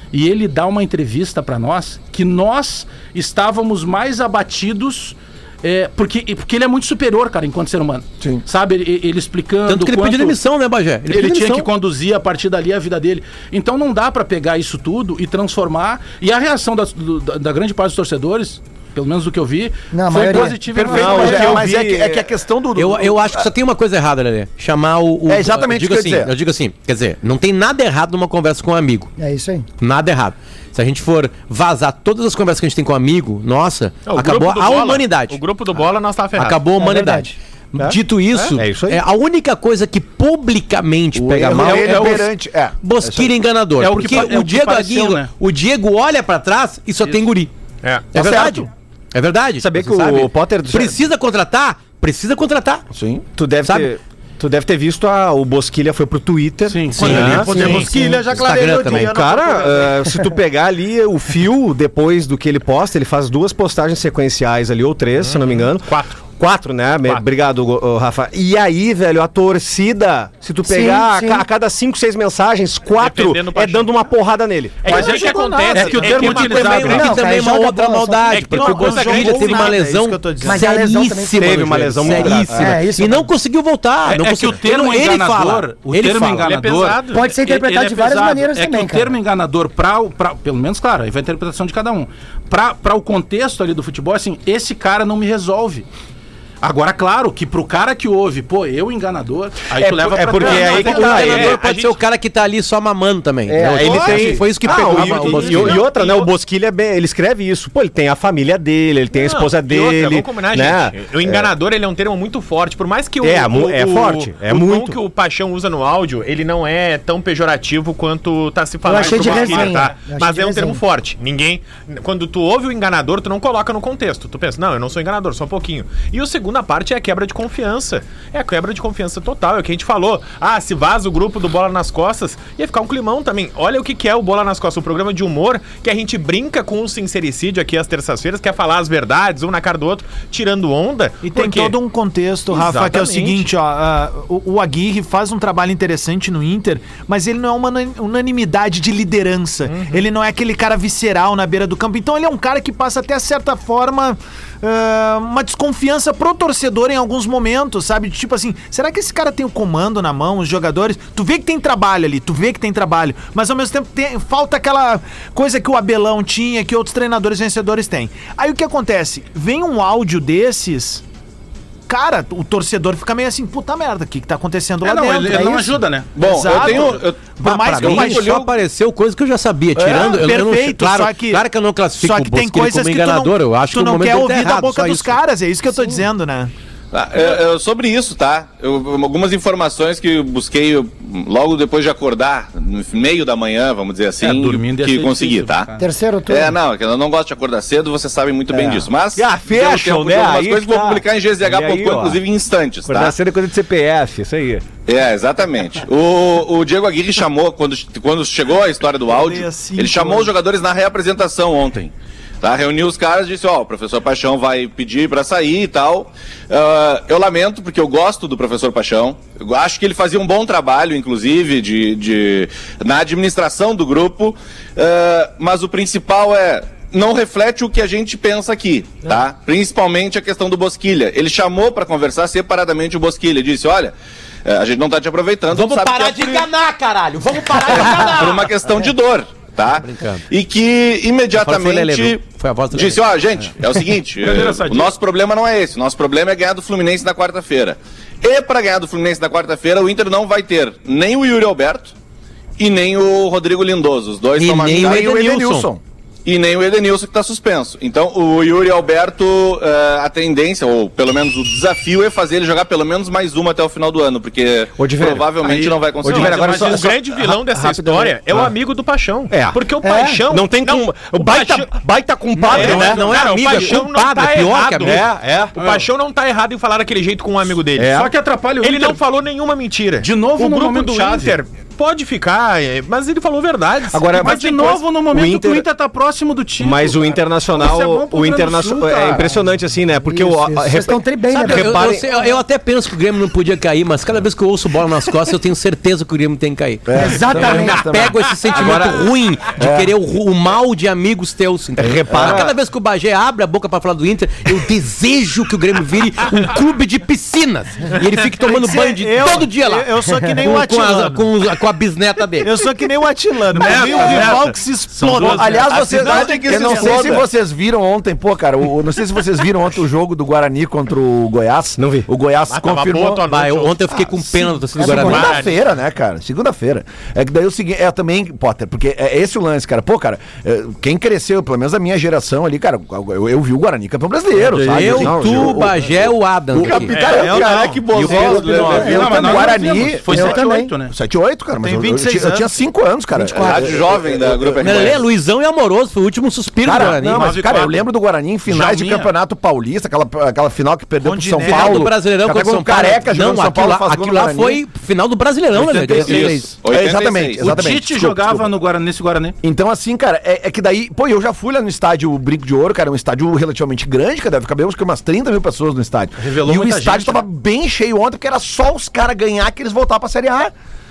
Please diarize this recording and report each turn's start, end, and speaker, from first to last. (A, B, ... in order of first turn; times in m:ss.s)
0:00.1-0:10.4 A
0:09.7-0:11.7 B
0:11.1-0:21.6 A
0:19.9-0:21.6 C
0:20.3-0:23.5 D
0:20.8-0:22.3 E
0:22.8-0:29.1 B
0:25.3-0:26.3 D
0:29.2-0:29.6 C
0:29.8-0:35.4 B
0:34.1-0:36.6 F
0:36.4-0:42.2 B
0:36.7-0:37.4 C
0:37.8-0:38.6 F
0:38.6-0:39.0 E
0:41.1-0:43.3 D
0:41.5-0:42.3 A
0:42.8-0:47.5 B
0:43.8-0:45.3 A
0:48.1-0:52.8 B
0:48.1-0:48.7 D
0:49.6-0:51.0 E
0:52.9-0:53.2 D
0:53.4-1:14.9 E
0:53.6-0:53.9 B
0:56.7-0:58.2 A
0:57.0-0:59.1 B
0:57.0-1:00.0 G
0:57.1-0:57.9 F
1:05.2-1:06.3 F
1:10.6-1:11.5 C
1:12.9-1:14.0 F
1:14.8-1:17.2 F
1:14.8-1:16.8 G
1:14.9-1:17.2 A
1:15.8-1:26.5 B
1:16.7-1:18.4 C
1:18.3-1:19.8 F
1:18.5-1:20.6 G
1:20.4-1:23.3 C
1:21.4-1:22.7 E
1:24.1-1:35.9 A
1:26.4-1:27.2 F
1:27.1-1:29.1 C
1:36.6-1:41.6 A
1:39.7-1:41.6 E
1:40.4-1:42.0 F
1:40.4-1:45.8 B
1:43.5-1:51.6 E
1:43.7-1:46.3 F
1:49.2-2:21.8 F
1:53.2-1:55.0 E
1:58.8-2:00.8 C
2:21.2-2:51.0 G
2:22.5-2:23.5 F
2:29.7-2:30.0 F
2:51.9-2:58.3 G
2:54.8-2:56.8 A
2:56.2-2:58.5 H
2:57.4-3:05.2 B
2:59.8-3:01.5 G
3:02.0-3:06.5 G
3:06.9-3:15.7 H
3:14.2-3:15.9 A
3:15.8-3:16.6 C
3:16.3-3:23.2 H
3:18.5-3:22.2 E
3:22.8-3:24.6 E
3:24.9-3:53.9 H
3:29.1-3:30.4 G
3:54.5-3:56.5 H
3:55.5-3:58.5 B
3:57.6-4:11.9 H
3:59.9-4:00.2 B
4:01.3-4:03.5 B
4:04.2-4:04.9 A
4:12.6-4:15.1 H
4:14.4-4:15.7 B
4:14.7-4:15.8 D
4:16.2-4:26.8 H
4:24.8-4:25.5 E
4:25.4-4:26.9 A
4:26.0-4:28.5 E
4:26.1-4:26.6 D
4:26.6-4:31.8 F
4:29.3-4:33.2 E
4:32.4-4:38.0 F
4:32.4-4:35.0 B
4:34.8-4:35.6 E
4:35.6-4:35.9 A
4:37.8-4:38.1 E
4:37.9-4:39.0 A
4:38.6-4:44.6 F
4:40.0-4:41.4 A
4:43.9-4:45.7 E
4:44.2-4:49.2 A
4:46.6-4:52.1 E
4:50.0-4:51.9 C
4:51.3-5:12.5 B
4:56.9-4:59.9 D
4:56.9-4:57.9 C
5:01.8-5:02.5 E
5:02.1-5:02.5 D
5:08.4-5:11.3 G
5:12.4-5:17.2 G
5:13.5-5:16.1 A
5:13.8-5:14.3 F
5:15.2-5:23.3 D
5:15.7-5:17.0 F
5:21.8-5:22.1 E
5:22.5-5:24.0 F
5:23.2-5:25.4 B
5:23.9-5:45.0 D
5:24.8-5:25.4 C
5:24.9-5:25.6 F
5:34.4-5:35.7 E
5:34.5-5:37.0 B
5:36.6-5:37.9 F
5:37.0-5:37.6 G
5:37.9-5:39.2 B
5:38.0-5:39.5 C
5:38.2-5:38.7 E
5:38.6-5:40.9 A
5:40.1-5:40.8 C
5:41.6-5:42.5 G
5:43.1-5:43.9 C
5:43.3-5:45.0 H
5:44.6-5:47.3 B
5:46.6-5:54.6 D
5:47.0-5:47.9 A
5:48.5-5:49.1 A
5:51.0-5:51.9 G
5:51.4-5:56.6 B
5:55.5-5:58.5 D
5:55.9-5:57.7 H
5:57.4-5:59.4 A
5:59.4-6:10.5 D
6:06.2-6:07.2 A